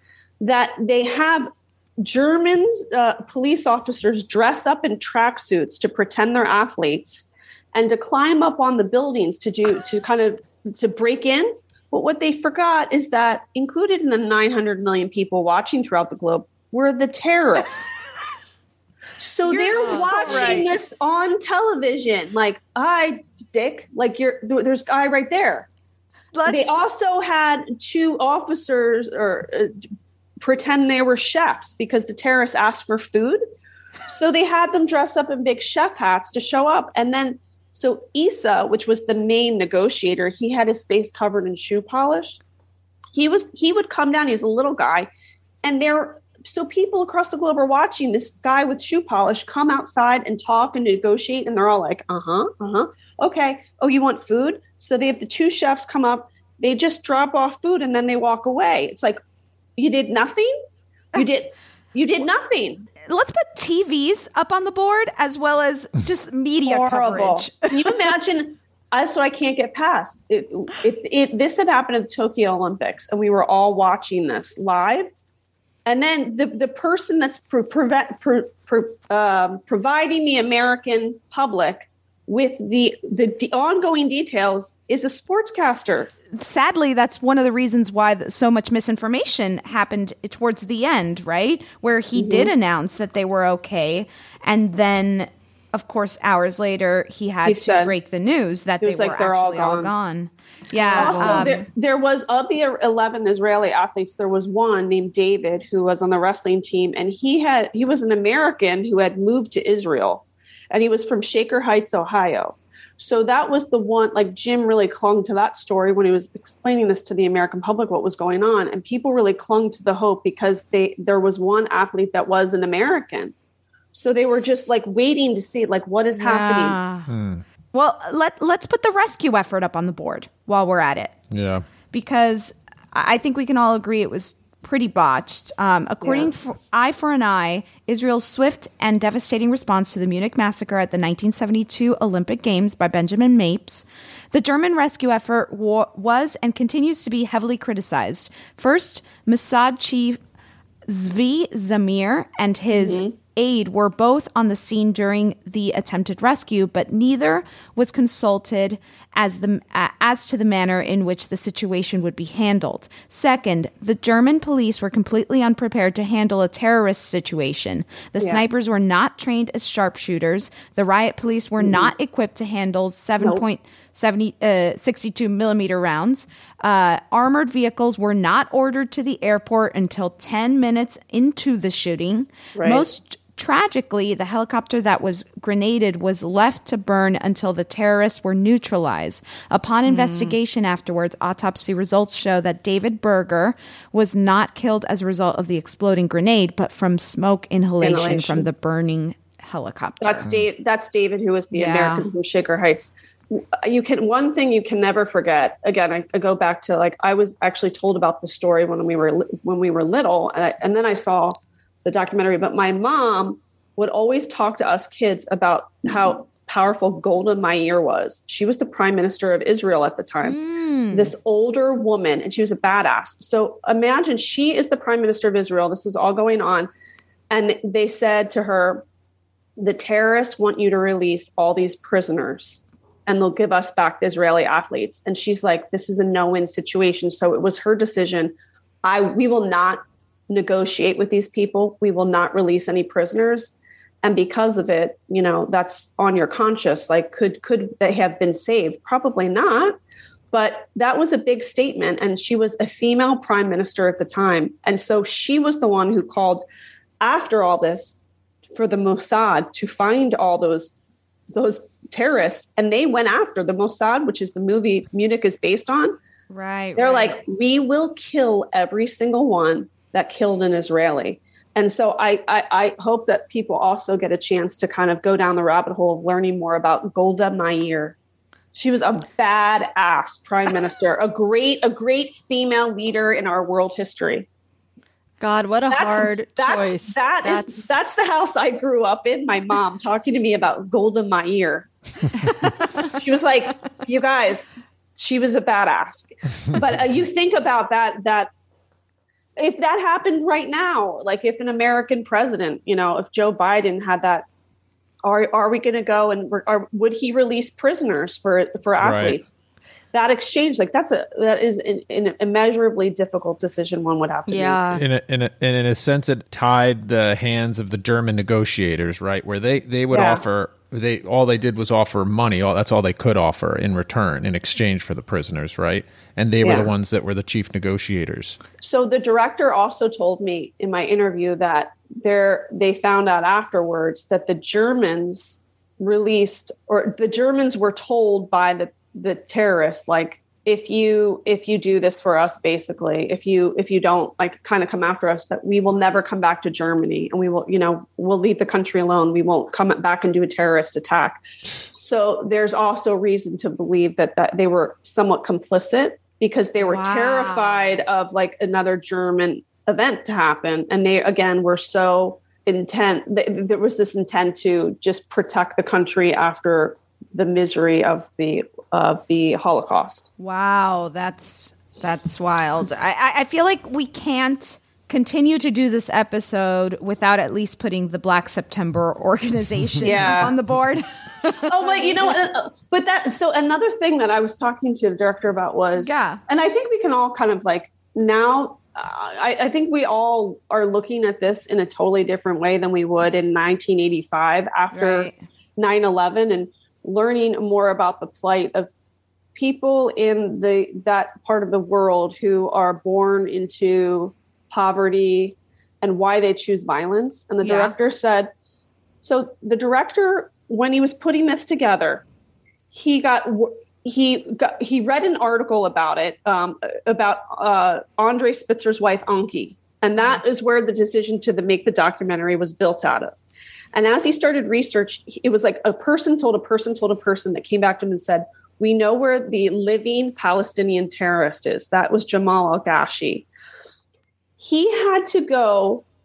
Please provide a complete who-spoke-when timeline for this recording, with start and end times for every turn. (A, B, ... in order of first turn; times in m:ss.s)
0:00.4-0:17.9 A
0:19.2-0:25.7 A
0:19.5-0:20.7 B
0:20.0-0:20.4 C
0:26.3-0:26.8 B
0:26.5-0:29.8 A
0:30.4-0:33.4 A
0:34.1-0:42.4 A
0:43.1-0:45.1 A
0:45.6-0:59.2 A
0:59.8-1:00.6 A
1:01.1-1:02.9 A
1:03.1-1:07.9 B
1:06.7-1:15.1 A
1:15.8-1:26.1 A
1:26.3-1:41.6 B
1:32.2-1:32.5 A
1:37.4-1:38.0 A
1:38.8-1:39.9 A
1:40.8-1:41.5 C
1:40.9-2:03.3 A
2:03.9-2:06.8 A
2:06.2-2:07.1 B
2:07.1-2:07.4 D
2:07.7-2:11.2 B
2:11.3-2:11.6 D
2:11.9-2:30.2 B
2:16.0-2:16.3 A
2:30.9-3:20.3 B
2:32.7-2:33.2 A
2:51.6-2:51.9 A
3:02.6-3:02.8 A
3:09.9-3:10.4 C
3:17.8-3:18.5 A
3:20.0-3:40.4 A
3:21.5-3:22.0 B
3:40.2-3:41.1 B
3:40.9-3:46.7 A
3:47.3-3:48.8 A
3:49.6-4:09.8 A
4:10.3-4:16.5 A
4:17.0-4:18.0 A
4:18.6-4:20.7 A
4:21.3-4:26.0 A
4:26.3-4:27.2 B
4:26.8-4:38.0 A
4:38.5-4:44.3 A
4:45.2-4:47.6 C
4:45.7-4:51.7 A
4:53.0-4:58.3 A
4:59.4-5:04.3 A
5:05.0-5:09.3 A
5:08.8-5:09.2 D
5:09.9-5:14.6 A
5:14.3-5:14.8 C
5:14.7-5:28.4 D
5:19.9-5:20.2 A
5:26.4-5:26.7 A
5:28.6-5:51.2 A
5:51.7-6:10.1 A
5:56.6-5:57.7 B
6:10.2-6:22.2 B
6:19.8-6:20.3 A
6:21.5-6:38.7 A
6:25.8-6:26.2 B
6:34.7-6:35.2 B
6:39.4-6:48.3 A
6:47.4-6:47.7 B
6:49.0-6:52.0 A
6:52.7-7:03.2 A
7:03.7-7:13.3 A
7:14.4-7:15.8 A